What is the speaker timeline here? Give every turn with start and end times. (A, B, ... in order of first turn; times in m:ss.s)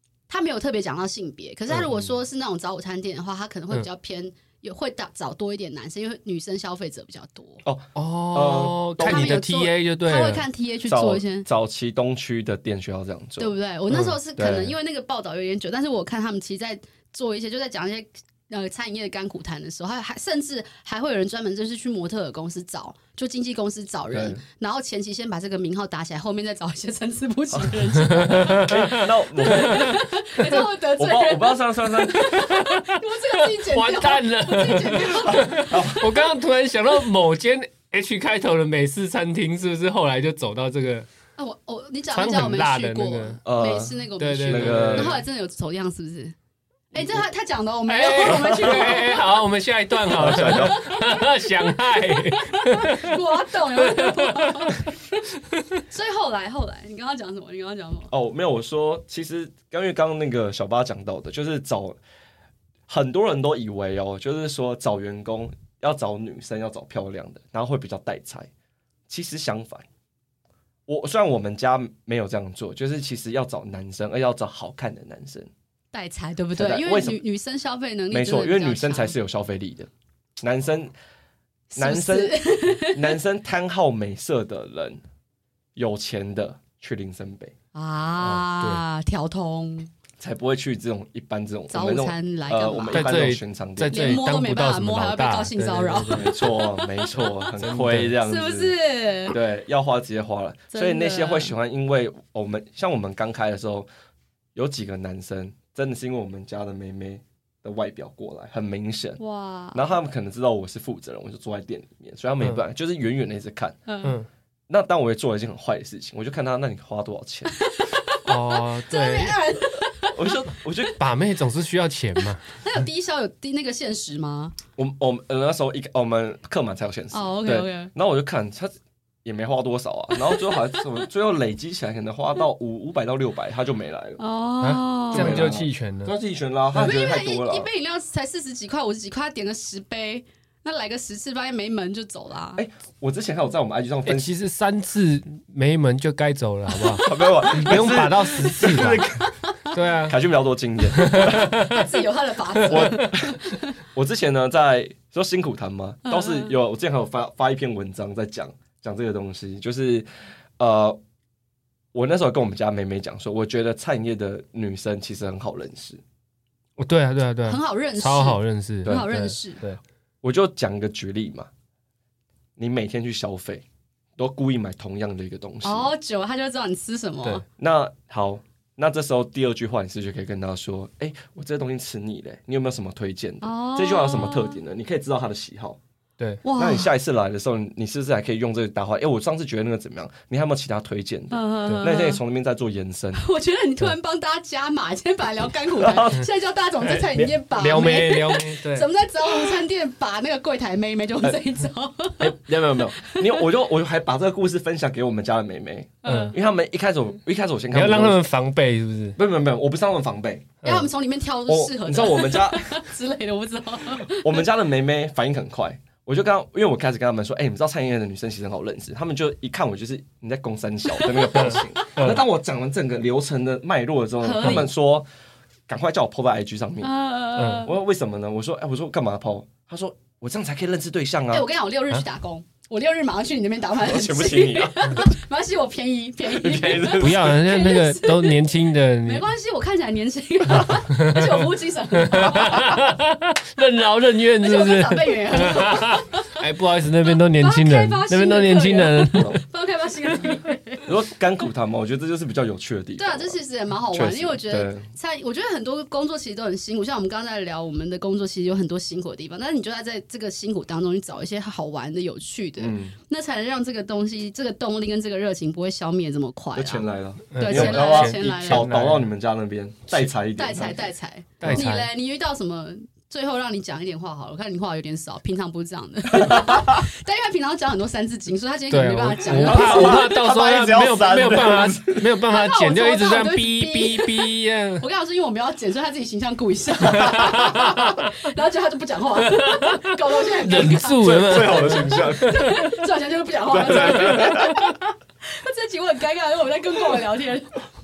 0:00.3-0:07.6 A
0:01.7-0:02.1 B
0:07.6-0:09.4 B
0:07.9-0:10.4 C
0:09.0-0:11.4 A
0:10.9-0:13.6 B
0:13.4-0:36.2 A
0:14.4-0:14.8 B
0:24.1-0:24.4 B
0:27.5-0:27.8 B
0:28.0-0:30.6 C
0:28.5-0:32.5 B
0:32.3-0:41.1 C
0:35.4-0:36.2 B
0:41.4-0:46.4 A
0:42.1-0:43.4 C
0:43.4-0:45.2 B
0:44.2-0:45.2 C
0:46.9-0:49.4 A
0:47.9-0:54.8 C
0:48.3-0:48.9 B
0:50.1-0:50.8 B
0:50.1-0:55.2 A
0:55.5-0:55.8 C
0:55.9-0:58.1 A
0:58.1-1:02.0 B
1:02.9-1:08.5 B
1:09.1-1:09.8 B
1:10.9-1:15.5 B
1:15.9-1:19.1 A
1:16.6-1:17.2 B
1:18.1-1:19.9 B
1:20.4-1:20.9 B
1:21.7-1:23.2 A
1:21.8-1:25.0 B
1:25.8-1:27.5 B
1:27.7-1:29.9 A
1:28.2-1:28.8 C
1:30.2-1:34.2 B
1:31.7-1:33.2 A
1:32.9-1:36.3 C
1:33.9-1:37.5 A
1:36.1-1:38.7 B
1:37.6-1:38.2 C
1:38.2-1:39.4 A
1:39.3-1:43.9 B
1:40.7-1:41.5 A
1:44.6-1:49.2 B
1:49.2-1:49.8 A
1:49.7-1:53.8 B
1:53.9-1:54.2 A
1:54.7-1:57.6 B
1:57.6-2:00.4 A
1:58.2-1:59.4 C
2:00.1-2:01.0 B
2:01.0-2:02.4 C
2:02.5-2:04.6 A
2:04.8-2:14.2 B
2:07.1-2:07.9 A
2:14.2-2:15.5 A
2:14.6-2:16.2 C
2:15.1-2:17.7 B
2:16.7-2:22.6 A
2:22.6-2:24.3 B
2:24.1-2:29.1 C
2:26.8-2:27.3 A
2:27.0-2:29.3 B
2:28.6-2:29.7 A
2:29.7-2:30.2 C
2:30.1-2:31.6 B
2:30.9-2:31.9 C
2:31.5-2:33.7 A
2:32.6-2:33.2 C
2:32.7-2:33.4 B
2:33.9-2:40.1 B
2:36.1-2:36.5 A
2:40.6-2:41.0 B
2:41.9-2:46.0 B
2:46.8-2:49.8 C
2:47.4-2:49.6 A
2:50.2-2:51.5 B
2:52.6-2:53.6 B
2:54.2-2:55.9 B
2:55.6-2:57.4 A
2:57.6-3:05.8 B
3:03.4-3:04.6 A
3:06.4-3:06.9 A
3:06.6-3:13.2 B
3:11.3-3:12.2 A
3:13.2-3:23.4 A
3:15.8-3:16.2 B
3:16.8-3:18.9 C
3:22.2-3:28.2 B
3:26.0-3:26.4 A
3:26.1-3:26.4 C
3:27.7-3:29.2 C
3:29.2-3:30.6 B
3:30.6-3:30.9 C
3:30.6-3:34.4 A
3:31.5-3:32.9 B
3:34.0-3:45.1 B
3:40.9-3:41.7 A
3:41.3-3:42.2 C
3:44.2-3:44.7 A
3:45.7-3:46.9 B
3:46.8-3:47.7 A
3:47.4-3:47.7 C
3:47.6-3:51.5 B
3:51.3-4:02.8 A
3:53.8-3:55.0 B
3:56.3-3:57.4 B
3:57.0-3:59.3 C
4:00.5-4:09.4 C
4:04.4-4:06.4 A
4:07.4-4:10.9 A
4:09.1-4:09.4 B
4:10.8-4:14.9 B
4:13.0-4:28.7 A
4:22.6-4:23.0 B
4:26.6-4:31.6 B
4:27.3-4:29.1 C
4:30.4-4:40.2 A
4:31.4-4:31.9 C
4:36.1-4:36.8 B
4:38.7-4:44.8 C
4:39.4-4:42.1 B
4:42.3-4:57.5 A
4:46.9-4:48.1 C
4:49.2-4:52.7 C
4:51.0-4:52.5 B
4:53.5-4:54.7 B
4:53.9-4:54.4 C